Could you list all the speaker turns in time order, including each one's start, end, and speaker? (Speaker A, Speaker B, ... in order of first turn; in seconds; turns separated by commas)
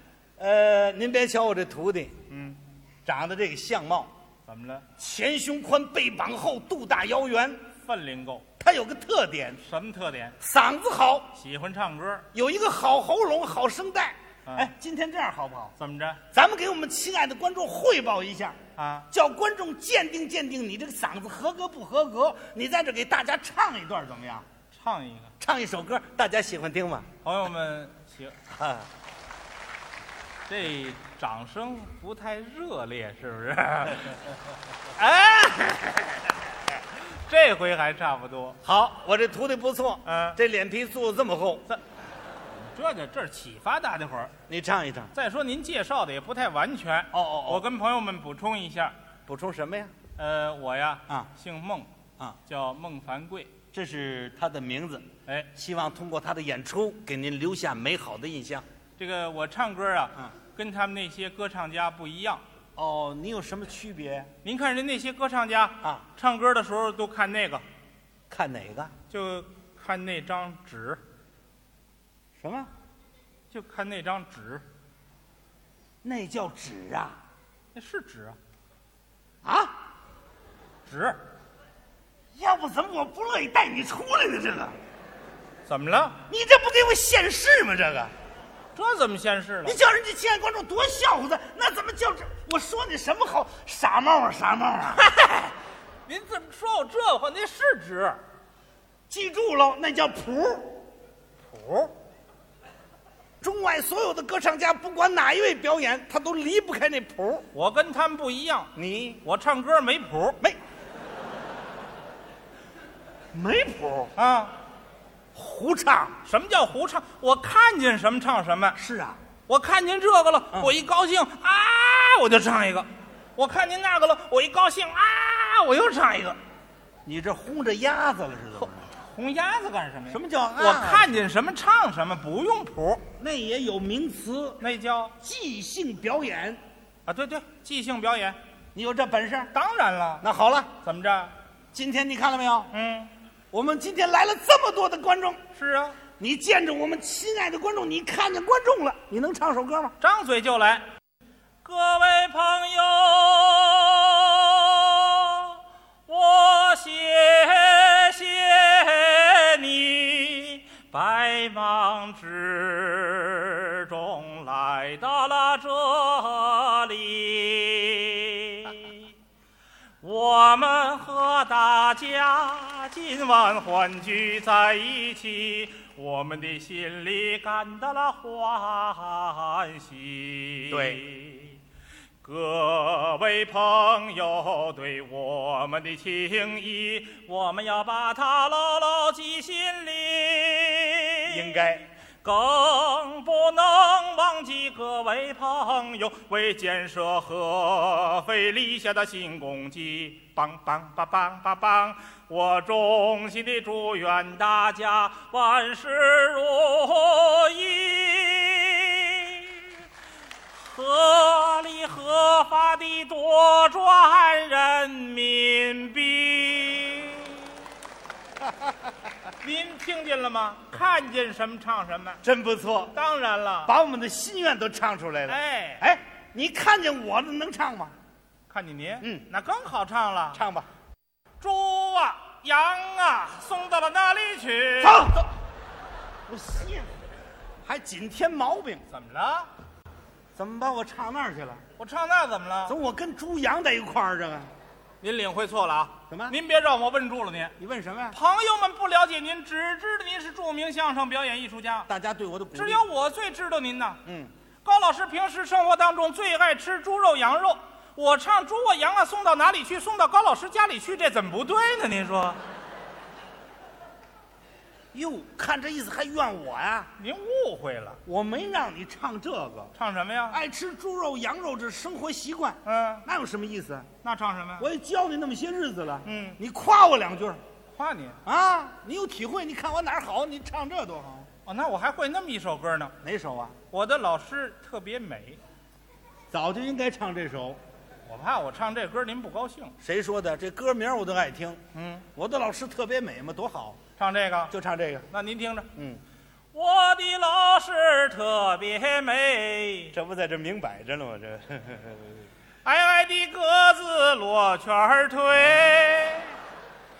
Speaker A: 0.4-2.1, Speaker B: 2.3-2.6, Speaker A: 3.0-4.1, Speaker B: 4.5-4.9, Speaker A: 4.9-7.7, Speaker B: 7.8-8.5, Speaker A: 8.6-9.6, Speaker B: 9.6-10.4, Speaker A: 10.4-11.3, Speaker B: 11.3-12.3, Speaker A: 12.3-15.7, Speaker B: 14.4-14.7, Speaker B: 15.8-16.2, Speaker A: 16.3-18.6, Speaker B: 18.8-19.1, Speaker A: 19.1-24.5, Speaker B: 24.7-25.3, Speaker A: 25.4-27.1, Speaker B: 27.2-28.4, Speaker A: 28.5-28.9, Speaker B: 30.5-34.4, Speaker B: 34.9-36.1, Speaker B: 36.9-38.6, Speaker A: 38.6-41.6, Speaker B: 40.0-40.4, Speaker B: 42.5-44.3, Speaker A: 44.5-45.1, Speaker B: 45.1-48.9, Speaker A: 47.1-47.6, Speaker A: 49.3-50.0, Speaker B: 50.1-51.9, Speaker B: 52.5-53.5, Speaker A: 53.7-58.6, Speaker B: 59.0-62.4, Speaker A: 62.8-64.3, Speaker B: 64.4-67.6, Speaker A: 68.3-68.9, Speaker B: 69.1-71.0, Speaker A: 72.4-72.7, Speaker B: 73.5-74.6, Speaker A: 76.0-77.2, Speaker B: 77.7-78.4, Speaker A: 79.4-79.7, Speaker B: 80.8-81.2, Speaker A: 82.3-84.8, Speaker B: 85.7-86.2, Speaker A: 86.3-88.1, Speaker B: 88.7-89.8, Speaker A: 89.6-95.2, Speaker B: 95.2-95.5, Speaker B: 96.1-98.2, Speaker A: 99.1-100.8, Speaker B: 101.5-101.9, Speaker A: 103.4-107.5, Speaker B: 107.5-110.4, Speaker A: 108.8-109.2, Speaker A: 113.3-114.1, Speaker B: 114.2-114.5, Speaker A: 115.3-116.2, Speaker B: 116.2-118.8, Speaker A: 118.8-119.2, Speaker B: 119.5-126.4, Speaker A: 127.0-128.8, Speaker B: 129.0-133.1, Speaker A: 130.1-131.1, Speaker A: 133.1-134.6, Speaker B: 134.6-135.2, Speaker A: 135.2-136.6, Speaker B: 137.1-138.4, Speaker A: 138.7-139.5, Speaker B: 139.5-140.2, Speaker A: 140.2-140.8, Speaker B: 140.8-141.3, Speaker A: 141.7-142.7, Speaker B: 142.7-143.1, Speaker A: 143.5-145.4, Speaker B: 145.5-146.0, Speaker A: 146.1-149.9, Speaker B: 150.0-150.8, Speaker B: 151.6-169.1, Speaker B: 170.0-181.6, Speaker A: 180.7-181.0, Speaker B: 182.2-191.6, Speaker A: 191.2-191.8, Speaker B: 192.2-209.8, Speaker B: 210.5-217.6, Speaker B: 219.4-222.2, Speaker A: 222.2-223.0, Speaker B: 222.9-223.7, Speaker A: 223.6-227.9, Speaker B: 225.3-225.8, Speaker B: 228.5-230.4, Speaker A: 229.0-229.3, Speaker A: 230.3-230.7, Speaker B: 231.4-235.2, Speaker A: 234.8-235.3, Speaker A: 236.3-236.9, Speaker A: 237.6-238.8, Speaker B: 238.9-239.5, Speaker A: 240.3-241.6, Speaker B: 241.8-242.8, Speaker A: 242.7-244.5, Speaker B: 245.0-247.5, Speaker A: 246.1-246.3, Speaker A: 247.6-248.2, Speaker B: 248.1-251.9, Speaker A: 251.9-252.8, Speaker B: 252.5-254.0, Speaker A: 254.1-254.3, Speaker B: 254.6-262.4, Speaker A: 264.9-266.9, Speaker B: 267.0-268.0, Speaker A: 268.0-269.7, Speaker B: 269.7-270.4, Speaker A: 270.3-273.9, Speaker B: 272.6-273.1, Speaker B: 274.0-274.7, Speaker A: 274.6-277.4, Speaker B: 276.0-276.4, Speaker B: 277.7-278.2, Speaker A: 278.2-281.3, Speaker B: 281.4-282.9, Speaker A: 283.0-283.6, Speaker B: 283.7-285.4, Speaker A: 286.3-287.6, Speaker B: 288.1-289.8, Speaker A: 289.8-293.8, Speaker B: 291.7-292.1, Speaker B: 294.0-294.5, Speaker A: 294.5-295.1, Speaker B: 295.1-295.7, Speaker A: 295.7-296.0, Speaker B: 296.5-299.9, Speaker A: 299.9-302.2, Speaker B: 302.6-306.4